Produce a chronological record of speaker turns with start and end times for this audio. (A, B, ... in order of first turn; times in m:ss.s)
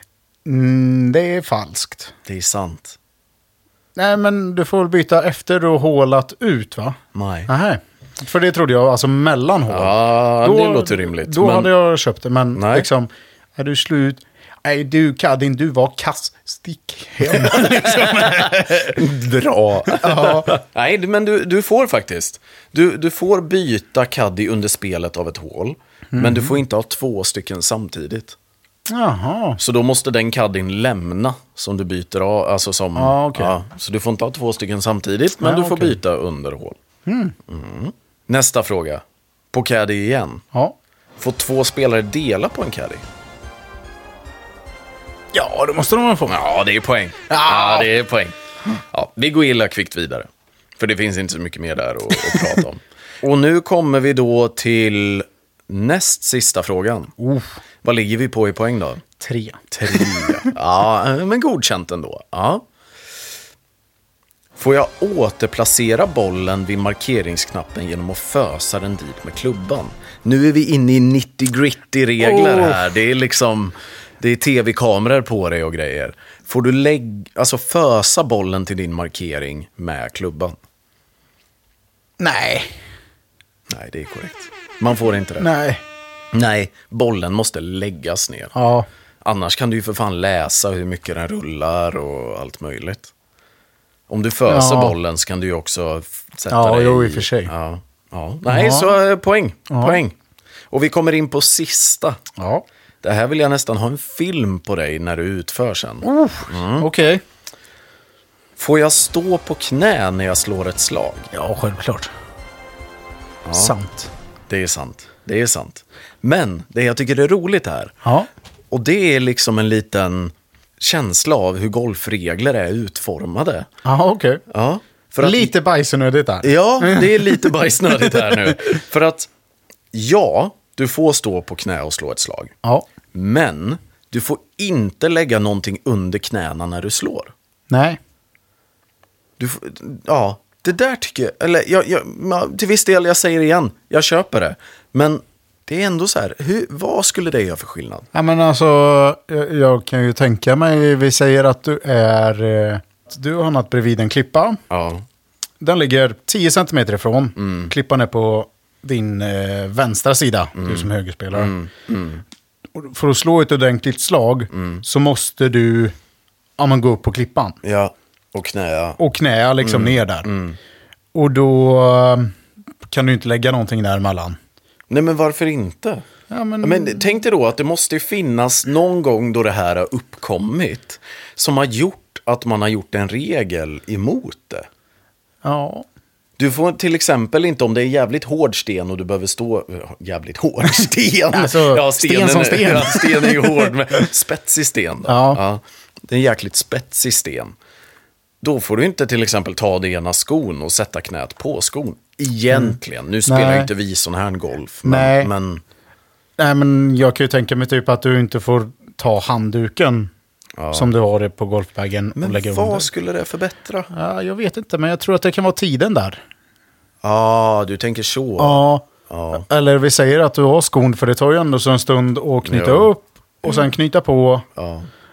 0:00.4-0:02.1 A
0:02.2-0:03.0 B
0:04.0-0:19.0 A
0:07.1-0:07.5 B
0:09.7-0:11.7 B
0:12.5-0:12.9 B
0:17.3-0:28.3 B
0:19.9-0:20.5 A
0:26.1-0:26.6 A
0:28.9-0:29.6 A
0:29.6-0:36.8 B
0:33.0-0:33.6 A
0:35.4-0:36.0 A
0:37.0-0:37.3 A
0:37.5-0:40.4 B
0:41.2-0:43.0 B
0:45.3-0:46.4 A
0:46.3-0:48.3 B
0:47.3-0:47.9 A
0:48.9-0:50.3 B
0:50.8-0:57.1 B
0:57.2-0:57.5 A
0:57.8-0:59.0 B
0:59.2-1:00.5 A
0:59.7-1:02.6 B
1:04.6-1:20.6 B
1:12.2-1:12.8 A
1:22.2-1:22.7 A
1:23.7-1:25.5 B
1:25.4-1:25.8 A
1:26.3-1:28.5 B
1:28.5-1:28.9 A
1:29.2-1:33.1 B
1:34.1-1:40.2 B
1:34.5-1:34.9 A
1:36.5-1:37.5 A
1:38.5-1:38.9 A
1:39.7-1:40.0 A
1:40.7-1:42.2 B
1:42.4-1:42.6 A
1:43.0-1:46.9 B
1:46.0-1:47.2 A
1:48.6-1:51.3 B
1:51.3-1:52.1 A
1:53.4-1:53.7 B
1:53.5-1:54.1 A
1:54.5-1:57.9 B
1:58.0-1:58.3 A
1:58.7-2:03.7 B
2:03.8-2:04.4 A
2:04.5-2:05.5 B
2:05.2-2:08.6 A
2:06.4-2:09.3 B
2:09.9-2:12.5 B
2:13.1-2:17.3 B
2:17.7-2:18.0 A
2:19.4-2:28.1 B
2:28.1-2:34.6 A
2:34.7-2:35.0 B
2:35.6-2:41.5 A
2:37.4-2:37.7 B
2:40.6-2:42.2 B
2:42.7-2:45.9 A
2:44.5-2:44.8 B
2:46.6-2:47.6 A
2:47.6-2:49.0 B
2:49.0-2:50.3 A
2:49.6-2:50.6 B
2:51.1-2:52.3 A
2:52.9-2:54.4 A
2:54.9-2:56.0 B
2:56.3-2:57.1 A
2:56.6-3:04.7 B
3:05.4-3:05.8 A
3:06.4-3:17.5 B
3:10.6-3:14.0 A
3:15.0-3:15.4 A
3:18.4-3:25.6 B
3:22.5-3:23.7 A
3:24.8-3:25.3 A
3:26.4-3:30.1 A
3:30.6-3:30.9 B
3:30.7-3:32.9 A
3:32.2-3:33.9 B
3:33.9-3:36.2 A
3:37.0-3:39.4 B
3:38.4-3:44.5 A
3:42.4-3:42.9 B
3:44.6-3:44.9 B